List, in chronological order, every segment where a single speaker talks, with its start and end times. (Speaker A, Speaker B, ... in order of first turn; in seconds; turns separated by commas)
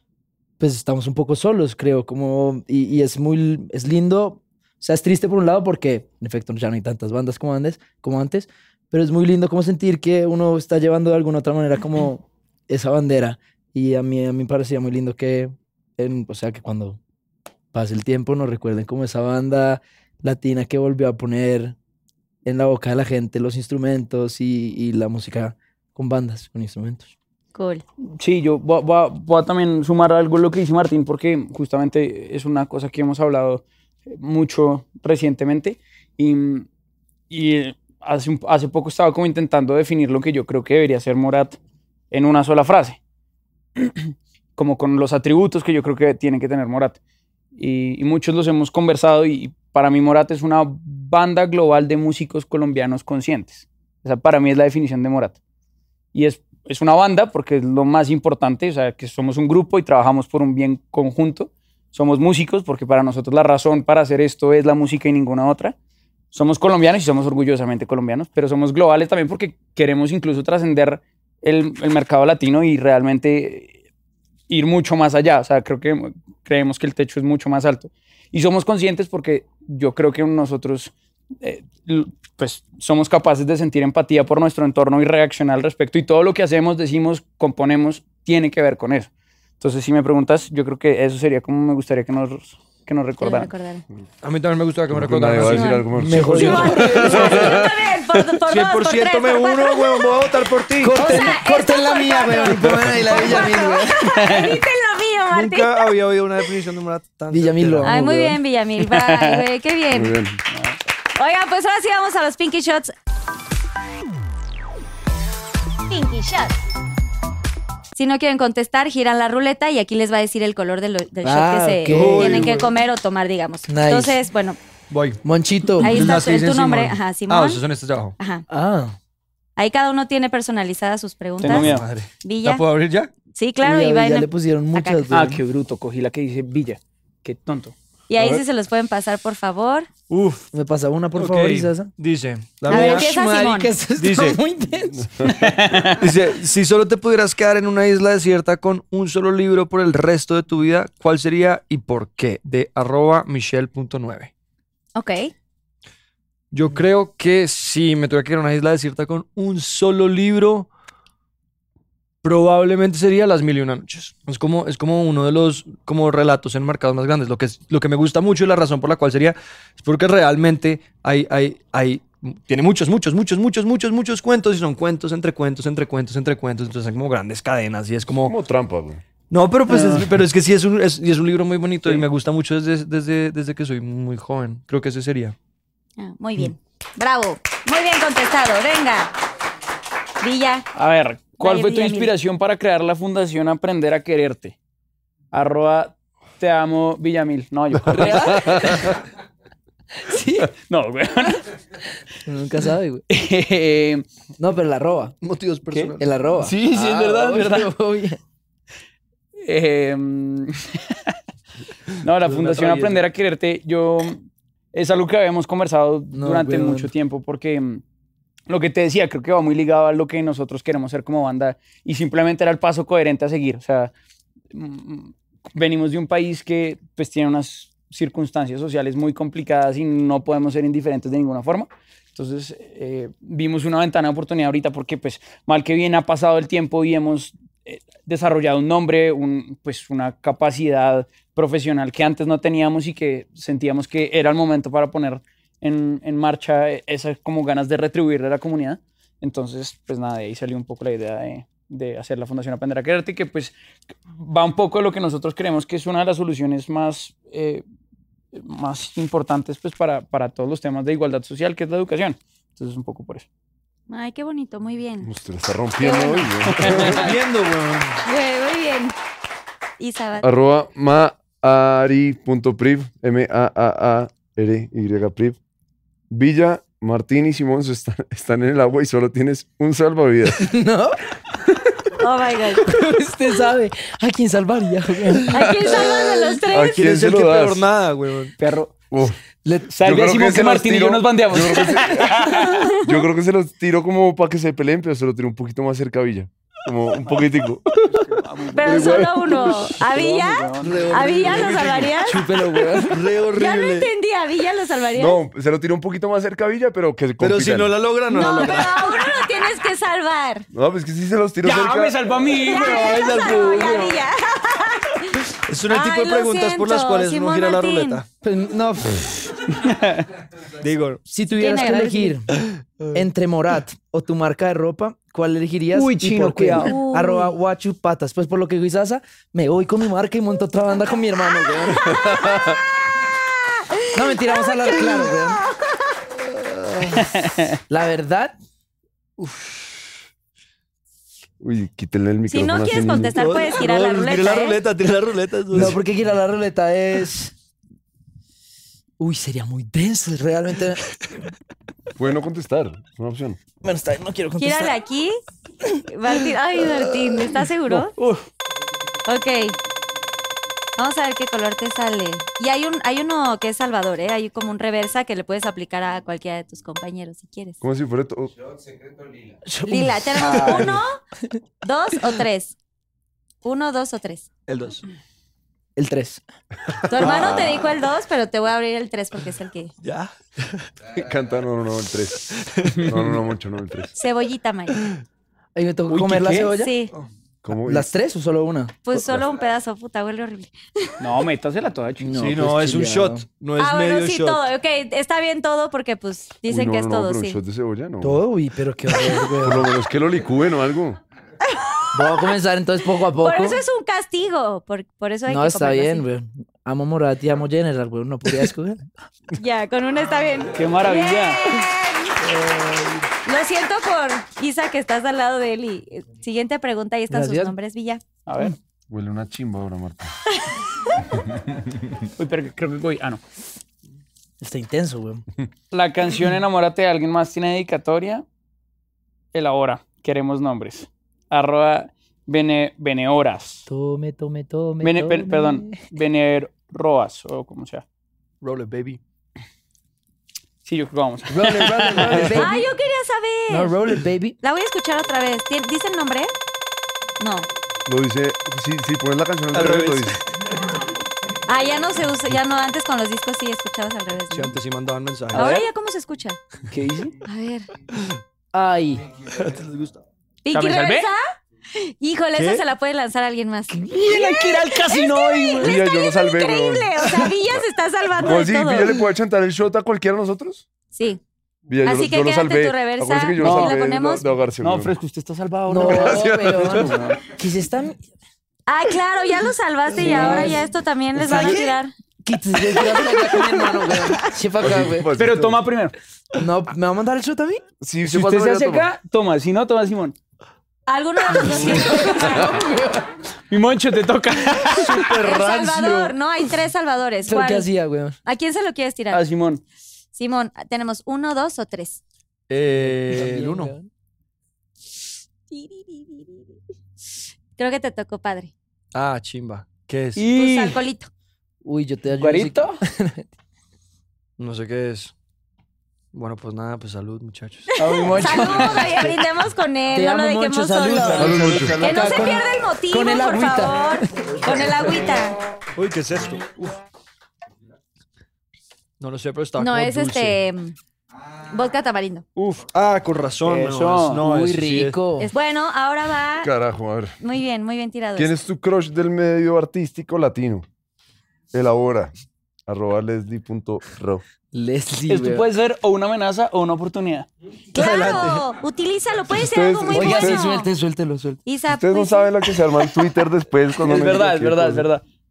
Speaker A: 0.6-17.0, Speaker A: 17.7-21.7, Speaker A: 22.4-27.1, Speaker B: 27.5-27.8, Speaker C: 28.2-36.7, Speaker C: 37.3-41.6, Speaker C: 42.1-43.0, Speaker C: 43.8-47.0, Speaker C: 47.5-55.4, Speaker C: 56.1-65.7, Speaker C: 66.3-73.7, Speaker C: 74.5-93.5, Speaker B: 93.2-93.8, Speaker D: 94.2-96.7, Speaker E: 94.9-97.8, Speaker B: 95.4-100.3, Speaker A: 96.0-97.7, Speaker D: 98.5-101.1, Speaker A: 100.8-104.2, Speaker B: 100.9-105.9, Speaker E: 102.7-103.0, Speaker C: 104.1-104.6, Speaker D: 105.3-108.3, Speaker A: 107.3-108.3, Speaker B: 107.8-110.2, Speaker C: 108.8-109.4, Speaker E: 109.9-110.4, Speaker C: 110.5-110.8, Speaker B: 111.1-112.9, Speaker B: 115.9-116.6, Speaker B: 118.0-124.6, Speaker A: 121.2-122.6, Speaker D: 121.9-122.7, Speaker A: 123.7-124.2, Speaker D: 124.9-125.2, Speaker A: 125.2-126.0, Speaker D: 125.8-128.2, Speaker B: 125.8-127.6, Speaker B: 128.2-128.4, Speaker A: 128.5-128.9, Speaker B: 129.6-132.6, Speaker C: 131.4-131.8, Speaker D: 131.4-133.1, Speaker B: 133.3-135.1, Speaker A: 133.6-135.4, Speaker C: 135.1-137.7, Speaker B: 138.1-139.9, Speaker E: 138.2-138.4, Speaker D: 140.1-140.5, Speaker A: 140.5-141.9, Speaker D: 141.1-143.1, Speaker A: 142.7-145.1, Speaker B: 142.7-143.7, Speaker D: 144.0-144.4, Speaker C: 145.2-146.0, Speaker D: 146.0-154.3, Speaker B: 154.9-155.3, Speaker D: 156.5-160.7, Speaker D: 162.2-178.3, Speaker E: 178.2-179.0, Speaker D: 179.3-185.3, Speaker C: 179.7-180.1, Speaker B: 186.0-189.1, Speaker B: 190.2-190.7, Speaker C: 190.7-194.6, Speaker B: 191.4-192.1, Speaker C: 195.3-199.0, Speaker A: 197.9-198.9, Speaker E: 198.3-198.8, Speaker A: 200.0-200.5, Speaker C: 200.5-201.5, Speaker A: 202.2-203.0, Speaker C: 203.1-204.0, Speaker A: 204.4-205.2, Speaker D: 205.2-206.0, Speaker C: 205.7-207.7, Speaker A: 206.0-208.2, Speaker C: 209.4-211.2, Speaker C: 212.0-217.8, Speaker D: 212.2-212.9, Speaker A: 216.1-216.9, Speaker C: 218.5-223.9, Speaker C: 224.5-253.6, Speaker C: 254.1-257.6, Speaker C: 258.3-263.3, Speaker B: 263.9-265.1, Speaker E: 265.0-267.1, Speaker B: 265.8-266.8, Speaker C: 266.5-267.1, Speaker D: 266.7-268.0, Speaker B: 268.0-268.9, Speaker B: 269.8-270.2, Speaker E: 270.2-275.4, Speaker E: 276.1-280.5, Speaker A: 280.4-280.9, Speaker B: 282.0-282.7, Speaker A: 282.6-286.0, Speaker B: 285.3-286.9, Speaker D: 285.9-288.3, Speaker E: 286.5-287.7, Speaker C: 288.4-288.7, Speaker E: 288.9-289.2, Speaker C: 289.7-292.7, Speaker E: 289.8-297.6, Speaker B: 292.3-292.9, Speaker C: 298.0-301.6, Speaker B: 298.5-302.2, Speaker E: 298.6-299.3, Speaker D: 300.6-302.0, Speaker A: 302.0-303.1, Speaker D: 302.8-303.9, Speaker B: 303.3-305.2, Speaker E: 304.9-307.8, Speaker D: 307.2-309.0, Speaker B: 308.1-310.5, Speaker E: 310.5-311.9, Speaker C: 311.4-313.5, Speaker B: 312.4-318.0, Speaker D: 312.5-314.0, Speaker D: 315.4-318.1, Speaker A: 318.2-319.1, Speaker C: 319.5-320.1, Speaker D: 320.6-321.0, Speaker A: 321.1-322.4, Speaker B: 321.3-322.2, Speaker D: 322.4-323.0, Speaker A: 322.9-332.3, Speaker C: 325.7-326.8, Speaker B: 326.6-327.3, Speaker E: 331.9-332.6, Speaker B: 333.7-334.5, Speaker A: 333.9-335.4, Speaker B: 335.4-336.0, Speaker D: 336.2-337.1, Speaker C: 336.9-337.6, Speaker A: 337.7-338.3, Speaker D: 339.2-339.9, Speaker E: 341.4-343.2, Speaker B: 342.3-344.6, Speaker D: 343.1-345.8, Speaker A: 345.5-347.3, Speaker A: 349.0-350.9, Speaker E: 352.0-353.4, Speaker A: 353.6-354.8, Speaker B: 354.4-355.2, Speaker B: 355.8-357.9, Speaker C: 357.7-358.2, Speaker B: 359.1-359.6, Speaker B: 360.8-367.6, Speaker E: 367.6-368.4, Speaker A: 369.5-370.8, Speaker B: 369.7-371.0, Speaker B: 371.6-372.6, Speaker B: 373.4-374.3, Speaker D: 374.5-374.8, Speaker A: 375.8-376.2, Speaker B: 376.9-379.7, Speaker E: 377.0-377.2, Speaker D: 377.0-377.5, Speaker D: 379.8-380.7, Speaker E: 380.9-383.9, Speaker D: 382.3-382.9, Speaker B: 383.9-384.9, Speaker A: 385.5-386.7, Speaker C: 385.9-386.5, Speaker B: 386.6-386.9, Speaker E: 387.4-387.9, Speaker A: 387.6-388.8, Speaker B: 388.9-391.2, Speaker C: 391.0-392.1, Speaker A: 392.0-393.2, Speaker D: 392.1-394.4, Speaker B: 393.6-397.4, Speaker E: 396.5-398.2, Speaker A: 398.0-399.7, Speaker E: 399.3-401.0, Speaker B: 401.4-402.3, Speaker A: 401.9-403.6, Speaker B: 403.1-406.0, Speaker A: 405.3-408.9, Speaker B: 409.3-412.2, Speaker C: 410.5-411.4, Speaker D: 412.3-413.0, Speaker B: 413.2-418.0, Speaker A: 417.1-417.5, Speaker C: 418.3-418.6, Speaker E: 418.9-420.1, Speaker E: 421.2-421.7, Speaker C: 422.1-423.2, Speaker A: 424.4-425.2, Speaker C: 425.7-428.2, Speaker C: 429.3-433.7, Speaker A: 433.7-435.8, Speaker C: 434.8-437.8, Speaker D: 438.4-439.0, Speaker C: 440.6-442.4, Speaker A: 441.3-442.7, Speaker B: 442.3-443.7, Speaker A: 443.5-444.4, Speaker B: 444.4-446.3, Speaker B: 447.2-447.5, Speaker E: 447.9-450.2, Speaker D: 449.5-450.2, Speaker B: 451.5-454.5, Speaker D: 454.3-455.5, Speaker B: 455.3-456.4, Speaker C: 455.3-455.6, Speaker C: 456.7-457.1, Speaker B: 457.2-457.7, Speaker A: 458.5-459.0, Speaker D: 459.3-460.0, Speaker B: 460.4-468.9, Speaker C: 460.5-461.1, Speaker D: 462.3-462.6, Speaker C: 463.8-465.8, Speaker E: 465.6-467.6, Speaker E: 468.2-470.6, Speaker B: 470.9-471.2, Speaker E: 471.7-474.9, Speaker B: 471.8-474.2, Speaker C: 473.4-473.8, Speaker C: 474.6-476.3, Speaker A: 475.7-478.0, Speaker E: 475.8-477.0, Speaker B: 478.7-481.9, Speaker A: 479.9-485.1, Speaker C: 480.1-480.4, Speaker B: 482.7-484.1, Speaker E: 484.6-485.6, Speaker C: 485.2-485.9, Speaker A: 486.3-487.6, Speaker E: 487.8-488.9, Speaker C: 488.0-490.1, Speaker B: 490.9-492.6, Speaker A: 491.5-493.1, Speaker C: 493.5-495.1, Speaker D: 494.7-496.1, Speaker B: 495.2-497.7, Speaker A: 497.3-498.1, Speaker B: 498.2-499.2, Speaker C: 499.1-499.6, Speaker B: 500.1-502.0, Speaker D: 502.5-503.7, Speaker A: 502.8-503.9, Speaker B: 505.5-506.6, Speaker B: 507.5-508.5, Speaker D: 508.9-510.2, Speaker C: 510.1-510.8, Speaker B: 510.3-511.1, Speaker A: 511.6-513.2, Speaker C: 512.2-512.8, Speaker D: 514.4-515.1, Speaker D: 516.1-517.8, Speaker C: 517.8-518.9, Speaker B: 517.9-525.4, Speaker A: 518.6-519.1, Speaker A: 519.9-524.7, Speaker E: 521.1-522.0, Speaker D: 525.7-526.8, Speaker D: 529.0-530.4, Speaker B: 529.6-530.8, Speaker B: 531.5-532.2, Speaker D: 532.7-535.0, Speaker C: 533.4-534.2, Speaker A: 534.2-535.3, Speaker B: 535.2-536.5, Speaker E: 536.4-537.2, Speaker B: 537.2-538.3, Speaker E: 538.1-540.6, Speaker E: 541.5-542.1, Speaker E: 542.7-544.2, Speaker A: 544.5-545.4, Speaker C: 545.1-547.3, Speaker B: 547.7-550.7, Speaker D: 547.8-548.4, Speaker E: 549.3-550.5, Speaker A: 549.9-551.4, Speaker B: 551.5-552.3, Speaker E: 551.7-554.9, Speaker C: 553.8-555.0